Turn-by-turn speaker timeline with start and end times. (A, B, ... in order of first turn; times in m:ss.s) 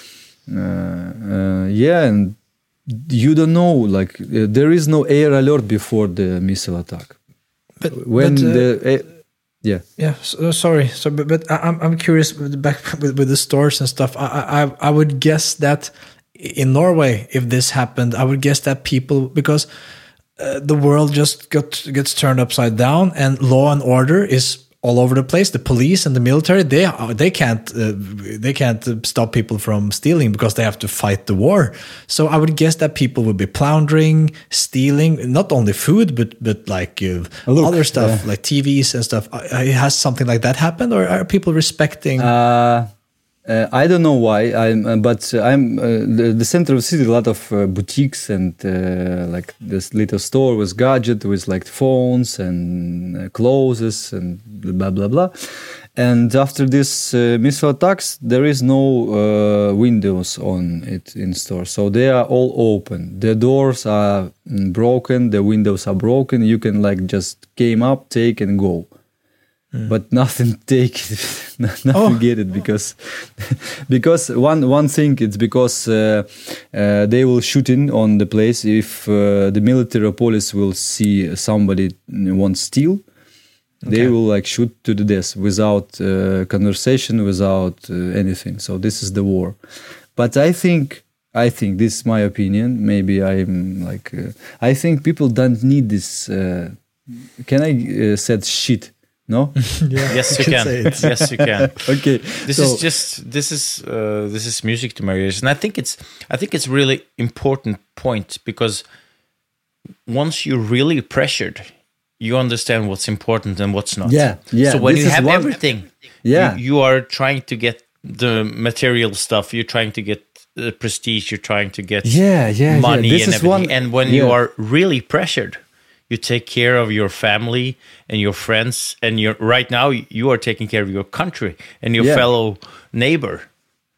0:00.5-0:07.2 A
0:07.8-0:08.7 B
0:07.9-0:09.1 A
0:10.0-0:19.7 B
0:20.4-0:42.3 B
0:37.4-0:38.3 A
0:42.2-0:42.9 A
0:43.4-1:08.9 A
1:09.9-1:23.0 A
1:11.9-1:12.2 B
1:23.8-1:24.1 B
1:23.9-1:29.6 A
1:30.1-1:36.8 A
1:37.4-1:41.1 A
1:39.8-1:41.0 B
1:40.1-1:48.8 C
1:41.8-1:42.8 A
1:50.1-1:51.7 C
1:52.2-2:13.5 C
1:54.0-1:55.6 A
1:56.2-1:56.6 A
2:02.0-2:04.4 A
2:12.0-2:12.2 A